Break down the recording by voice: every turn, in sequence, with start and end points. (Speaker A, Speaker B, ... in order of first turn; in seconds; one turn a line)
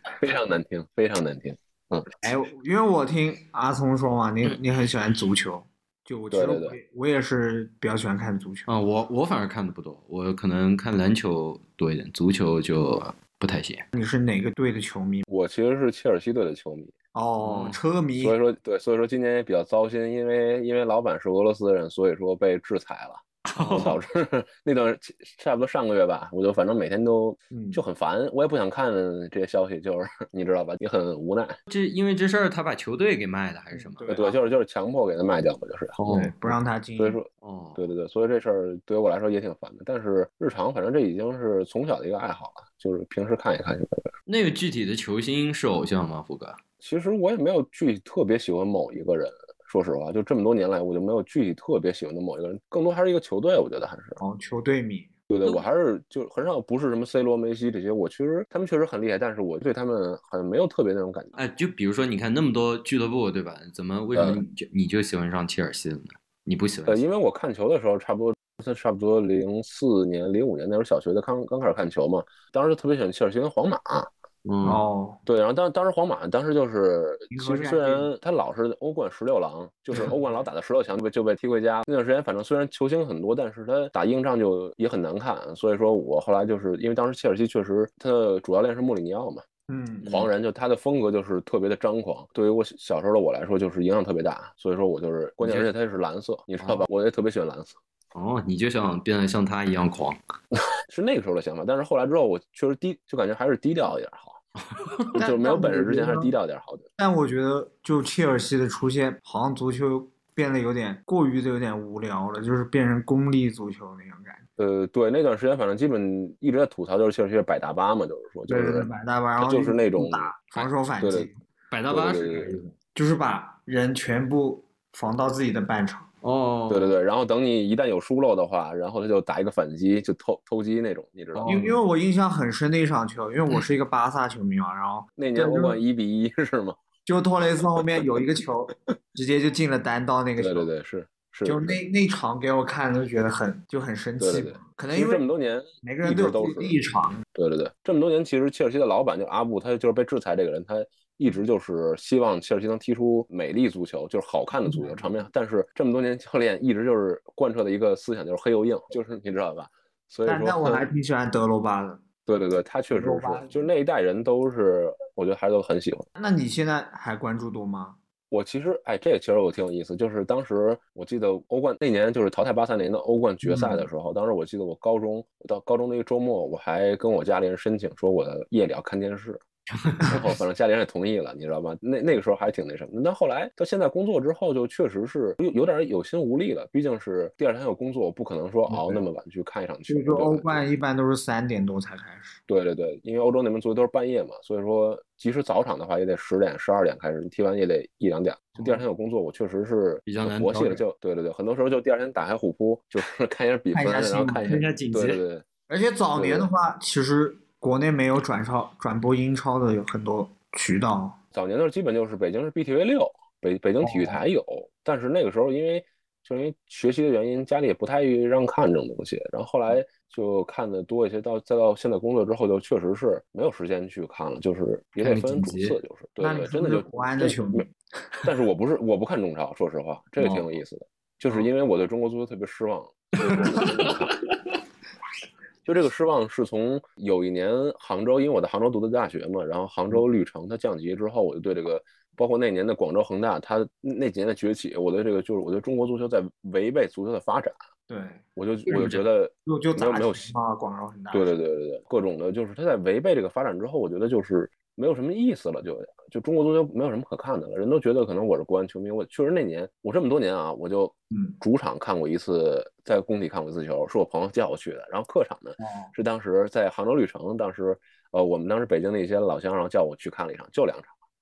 Speaker A: 0.2-2.1
Speaker B: 2.2-8.7
Speaker A: 6.3-6.8
Speaker C: 8.7-13.9
Speaker B: 13.9-15.2
Speaker A: 15.3-16.9
Speaker B: 17.1-18.4
Speaker C: 17.4-17.8
Speaker A: 18.2-23.2
Speaker C: 23.5-24.0
Speaker B: 23.5-23.9
Speaker A: 23.8-31.6
Speaker B: 27.5-27.8
Speaker C: 31.7-34.0
Speaker B: 33.7-34.4
Speaker A: 34.1-36.0
Speaker C: 36.0-36.3
Speaker B: 36.1-37.2
Speaker A: 37.0-44.1
Speaker C: 37.4-37.8
Speaker C: 44.3-46.6
Speaker A: 46.8-54.2
Speaker B: 54.2-55.1
Speaker A: 55.3-61.4
Speaker C: 61.4-67.0
Speaker A: 64.1-64.4
Speaker A: 66.9-74.1
Speaker C: 74.5-74.8
Speaker B: 74.6-75.2
Speaker A: 75.3-89.4
Speaker B: 77.3-78.1
Speaker B: 89.7-90.1
Speaker A: 90.1-97.8
Speaker C: 95.4-95.7
Speaker C: 96.6-96.9
Speaker C: 98.1-100.2
Speaker A: 100.9-104.4
Speaker C: 104.7-105.1
Speaker A: 105.1-106.9
Speaker B: 105.2-106.3
Speaker B: 107.0-114.5
Speaker A: 114.6-120.3
Speaker B: 118.5-121.4
Speaker A: 121.0-121.3
Speaker C: 121.7-122.7
Speaker A: 121.9-122.6
Speaker B: 123.0-126.1
Speaker C: 126.2-127.0
Speaker A: 126.7-131.6
Speaker C: 131.3-131.8
Speaker B: 131.5-135.8
Speaker A: 135.2-136.8
Speaker B: 137.1-140.7
Speaker A: 140.4-141.8
Speaker B: 141.4-145.2
Speaker A: 144.2-146.8
Speaker B: 145.8-147.2
Speaker A: 147.3-160.9
Speaker B: 154.7-155.0
Speaker B: 160.3-162.0
Speaker A: 162.3-166.1
Speaker B: 162.9-163.5
Speaker B: 166.2-168.0
Speaker A: 168.3-179.4
Speaker B: 173.5-173.8
Speaker C: 179.8-180.3
Speaker A: 180.0-190.6
Speaker B: 188.7-189.0
Speaker B: 189.9-192.4
Speaker A: 192.5-205.5
Speaker C: 200.1-200.8
Speaker B: 203.7-204.7
Speaker C: 204.4-205.2
Speaker B: 205.7-211.2
Speaker A: 206.1-206.5
Speaker A: 211.3-227.6
Speaker B: 213.8-214.2
Speaker C: 225.0-225.8
Speaker B: 226.2-227.7
Speaker A: 228.2-234.2
Speaker C: 230.2-230.6
Speaker C: 233.2-234.1
Speaker A: 235.7-247.6
Speaker B: 247.9-248.2
Speaker A: 248.4-250.3
Speaker C: 248.7-249.1
Speaker B: 249.5-251.3
Speaker A: 251.1-270.9
Speaker B: 261.1-261.4
Speaker B: 265.6-265.9